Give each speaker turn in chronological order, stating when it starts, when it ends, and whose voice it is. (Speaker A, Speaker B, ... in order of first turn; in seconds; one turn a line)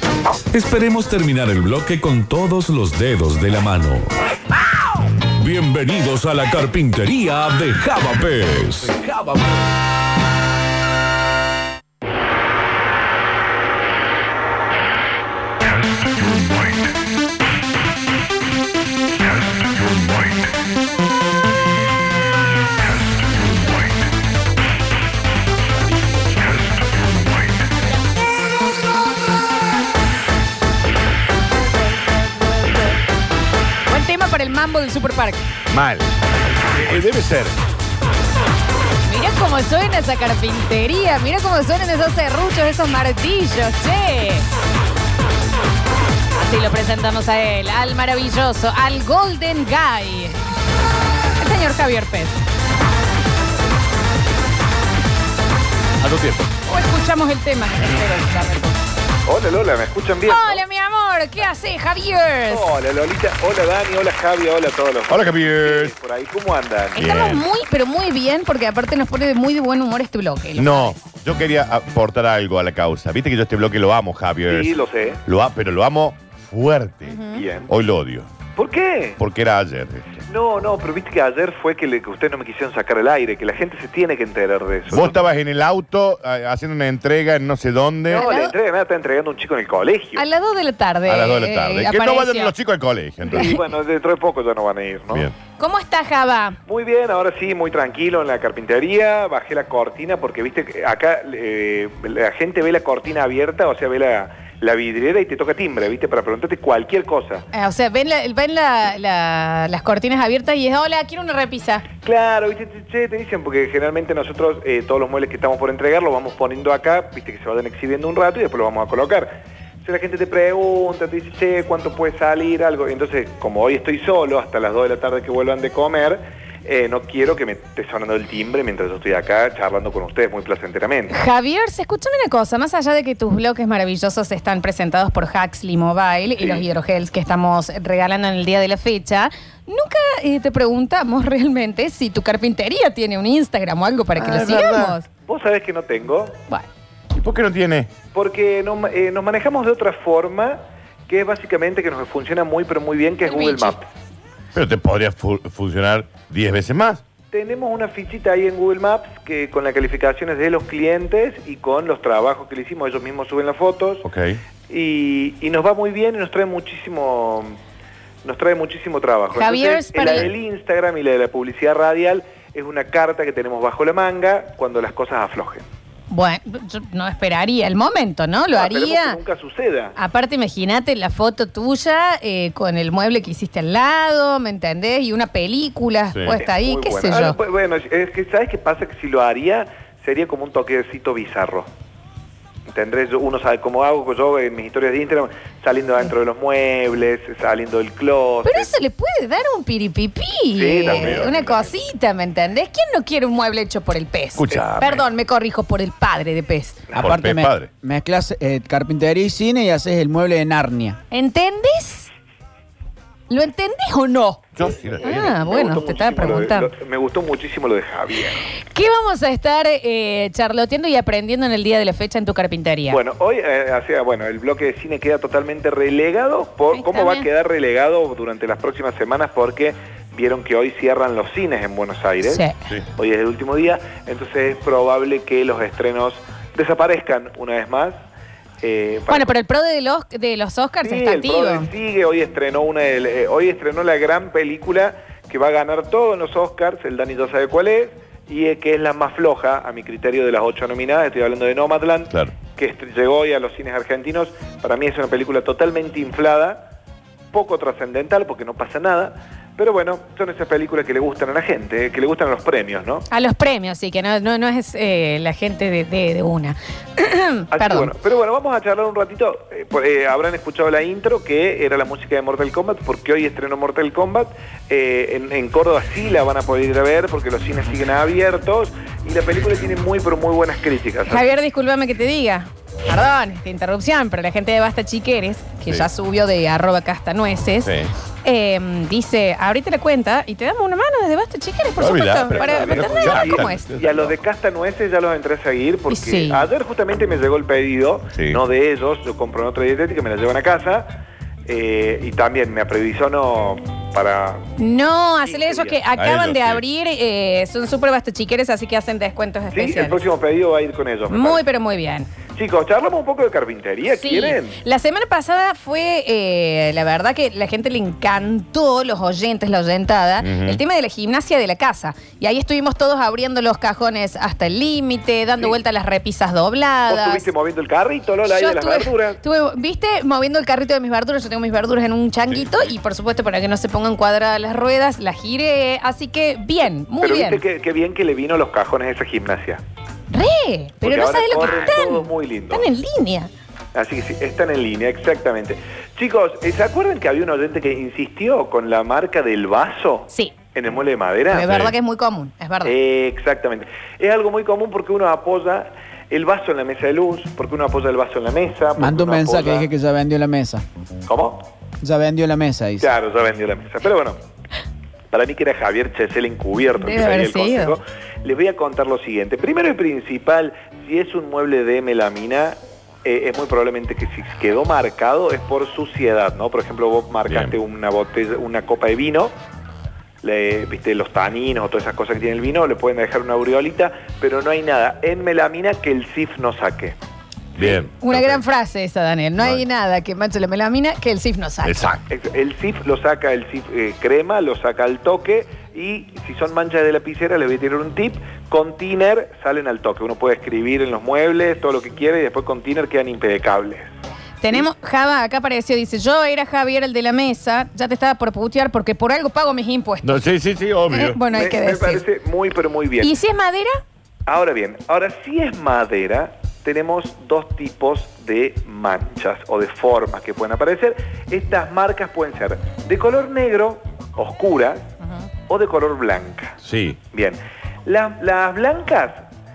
Speaker A: 0.5-4.1
Speaker A: 5.4-9.5
Speaker B: 33.9-35.4
Speaker C: 35.7-36.1
Speaker C: 36.8-37.5
Speaker B: 39.0-44.5
Speaker B: 46.3-50.4
Speaker B: 51.4-52.4
Speaker C: 56.0-56.5
Speaker B: 56.7-58.8
Speaker D: 59.2-60.6
Speaker B: 60.3-62.6
Speaker D: 62.5-67.0
Speaker C: 65.1-65.9
Speaker C: 67.0-67.4
Speaker B: 67.0-71.0
Speaker C: 70.5-74.7
Speaker D: 74.5-75.2
Speaker C: 75.2-78.3
Speaker B: 77.1-77.4
Speaker D: 77.3-77.7
Speaker D: 78.5-79.2
Speaker C: 79.2-80.0
Speaker D: 80.3-85.1
Speaker C: 84.9-88.2
Speaker B: 88.1-88.5
Speaker D: 88.1-90.2
Speaker B: 90.2-92.5
Speaker C: 91.1-93.5
Speaker B: 93.2-93.6
Speaker D: 93.3-95.3
Speaker B: 95.6-96.6
Speaker D: 96.7-107.5
Speaker B: 107.5-111.8
Speaker D: 112.0-131.1
Speaker B: 131.1-145.1
Speaker D: 136.4-136.6
Speaker C: 144.2-144.9
Speaker D: 145.2-146.4
Speaker C: 147.1-147.9
Speaker D: 148.1-153.9
Speaker B: 153.3-153.7
Speaker C: 154.5-157.0
Speaker D: 157.3-164.1
Speaker C: 164.0-164.4
Speaker D: 164.7-167.6
Speaker D: 168.2-175.6
Speaker B: 169.3-170.3
Speaker B: 176.1-179.2
Speaker D: 178.5-179.9
Speaker B: 179.9-187.3
Speaker C: 186.1-186.4
Speaker D: 186.4-191.7
Speaker D: 192.7-198.7
Speaker B: 198.4-206.8
Speaker D: 200.5-201.7
Speaker C: 200.9-201.3
Speaker C: 204.4-205.0
Speaker D: 204.5-204.9
Speaker E: 206.9-211.0
Speaker C: 207.0-207.7
Speaker B: 211.1-212.1
Speaker B: 213.3-214.4
Speaker C: 214.6-215.3
Speaker D: 214.9-218.5
Speaker B: 215.0-216.7
Speaker B: 218.7-223.0
Speaker D: 222.9-232.4
Speaker B: 226.7-227.2
Speaker B: 232.2-232.5
Speaker D: 232.9-237.9
Speaker D: 238.6-239.3
Speaker B: 239.1-241.7
Speaker D: 240.8-256.7
Speaker D: 257.3-263.1
Speaker B: 263.1-267.9
Speaker D: 267.5-281.3
Speaker B: 281.1-287.7
Speaker C: 287.6-287.9
Speaker B: 288.2-293.6
Speaker C: 291.8-294.1
Speaker D: 292.3-300.9
Speaker B: 295.9-296.4
Speaker C: 298.1-298.4
Speaker D: 301.4-304.5
Speaker B: 304.6-310.0
Speaker D: 305.2-305.8
Speaker C: 305.9-306.6
Speaker D: 309.5-311.4
Speaker B: 311.1-312.1
Speaker D: 312.3-314.6
Speaker B: 313.9-327.3
Speaker C: 320.2-320.6
Speaker D: 326.9-329.2
Speaker B: 328.3-337.4
Speaker C: 332.3-332.7
Speaker D: 337.0-339.6
Speaker B: 340.1-343.3
Speaker D: 340.8-342.7
Speaker D: 343.7-351.5
Speaker B: 351.3-352.7
Speaker C: 351.4-351.7
Speaker D: 352.6-359.7
Speaker E: 358.8-360.6
Speaker D: 361.1-361.4
Speaker E: 361.8-362.9
Speaker D: 362.8-364.2
Speaker D: 365.1-379.3
Speaker B: 366.8-367.8
Speaker C: 377.3-377.5
Speaker D: 380.2-386.9
Speaker C: 387.6-388.4
Speaker B: 388.0-391.8
Speaker C: 389.4-389.6
Speaker C: 391.6-392.0
Speaker D: 392.1-403.9
Speaker B: 404.4-410.2
Speaker C: 410.0-411.2
Speaker B: 410.9-412.0
Speaker D: 411.3-413.1
Speaker B: 413.0-413.8
Speaker D: 414.2-424.9
Speaker D: 425.5-426.6
Speaker C: 426.6-427.0
Speaker D: 427.1-429.2